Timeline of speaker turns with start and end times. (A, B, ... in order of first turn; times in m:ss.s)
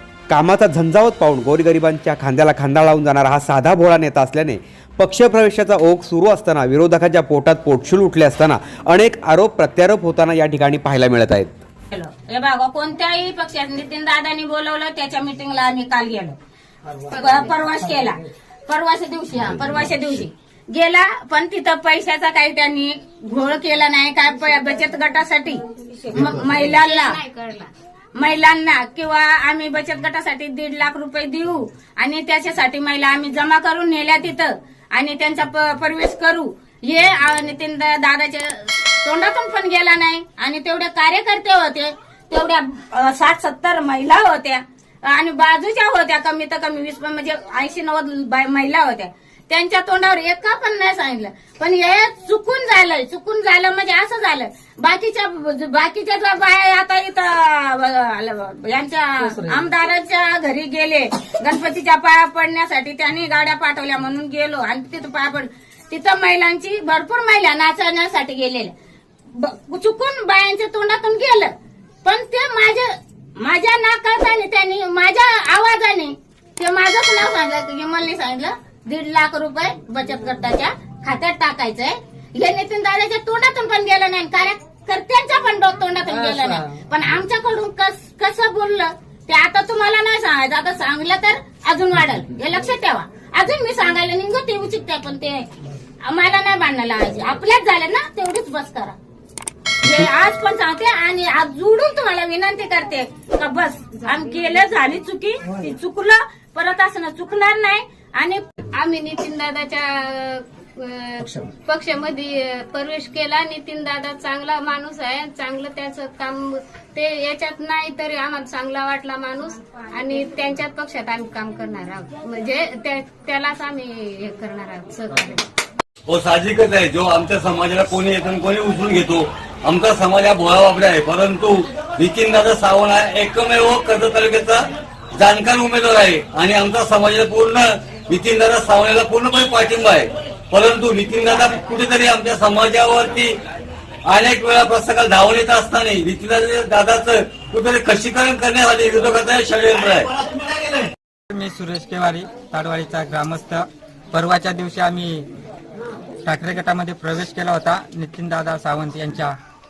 0:00.3-0:11.6 A
0:11.9-0:16.4 B
0:17.0-0:27.2 B
0:26.4-0:27.7 C
0:28.2-1:08.7 B
1:09.3-1:11.5 B
1:12.0-1:35.5 B
1:36.0-1:39.0 B
1:39.8-1:48.4 B
1:48.8-2:05.4 C
2:06.1-2:14.6 D
2:15.2-2:23.3 D
2:24.1-2:30.1 D
2:31.3-2:35.3 E
2:36.2-2:39.4 E